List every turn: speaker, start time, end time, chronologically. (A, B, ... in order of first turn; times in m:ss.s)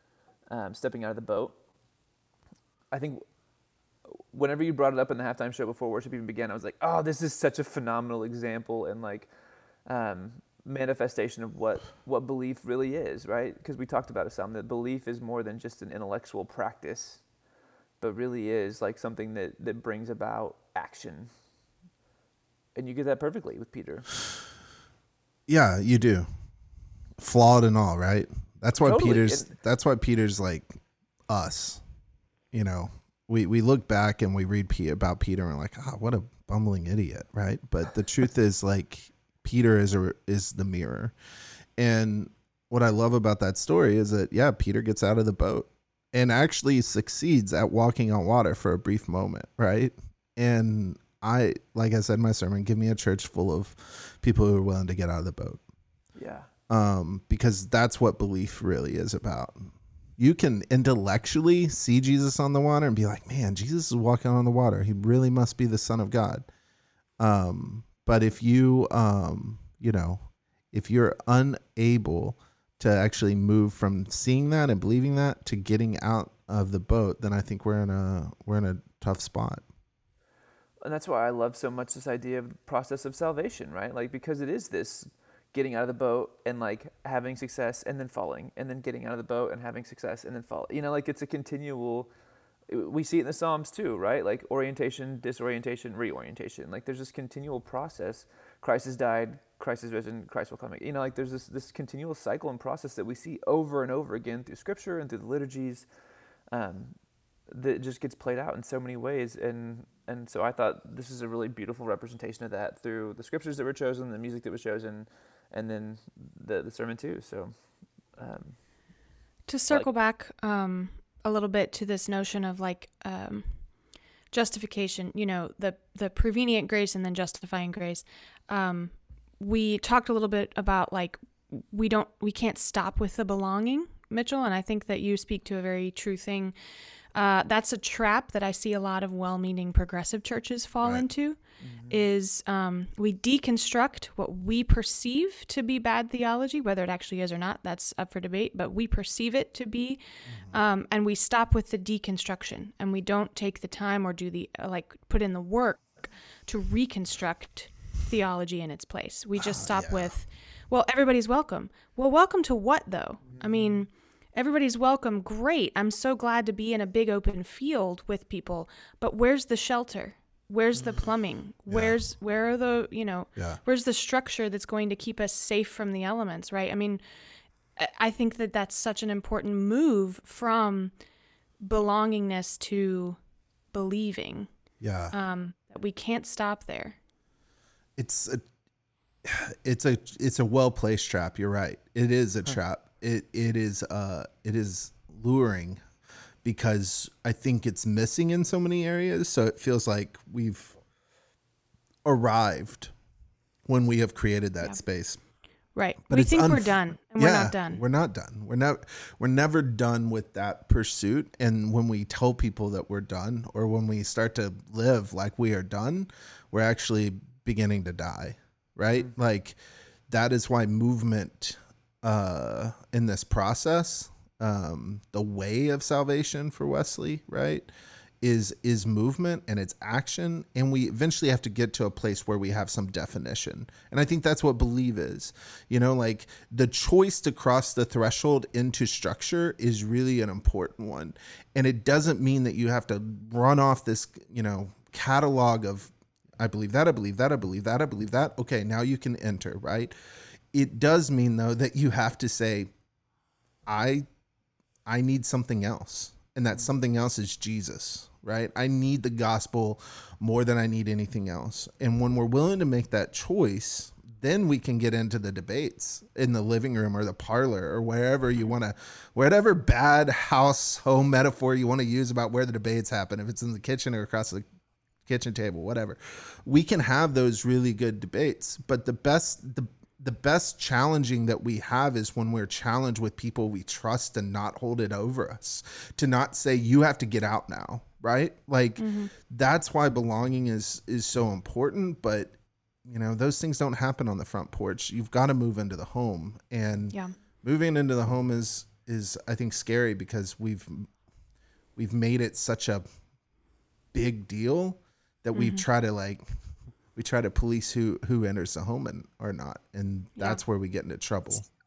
0:00.5-0:01.6 A
0:02.9-0:03.2 A
0:04.3-0:09.3 A
0:09.8-0:17.2 A
0:18.0-0:21.3 A
0:22.7-0:24.1 A
0:25.5-0:26.3 B
0:27.2-0:31.8 B
0:28.8-0:29.5 A
0:32.5-0:41.1 B
0:41.8-0:55.6 B
0:56.1-0:56.5 A
0:56.7-1:06.5 B
1:07.2-1:19.6 B
1:20.8-1:32.1 A
1:32.7-1:45.9 A
1:46.5-1:47.0 A
1:47.5-1:57.5 A
1:58.2-1:58.6 A
1:59.5-2:03.5 C
2:04.3-2:16.5 C
2:17.1-2:30.0 C
2:21.6-2:22.0 A
2:30.3-2:30.5 B
2:30.5-2:57.0 C
2:39.4-2:40.1 B
2:43.4-2:43.7 A
2:51.7-2:52.0 B
2:57.8-3:00.9 C
3:01.6-3:03.2 C
3:03.7-3:04.5 C
3:04.8-3:05.1 B
3:05.1-3:07.0 C
3:08.0-3:08.4 B
3:09.2-3:15.8 B
3:16.4-3:20.8 B
3:22.0-3:22.9 B
3:23.6-3:25.2 B
3:25.7-3:27.8 C
3:26.1-3:39.6 B
3:40.1-3:47.7 B
3:48.2-4:09.9 B
4:10.5-4:12.7 B
4:13.7-4:14.0 B
4:14.8-4:34.4 B
4:35.0-4:52.3 B
4:48.8-4:49.1 C
4:52.8-5:00.9 B
5:01.8-5:02.8 B
5:03.9-5:06.2 B
5:05.3-5:05.6 C
5:07.0-5:11.4 B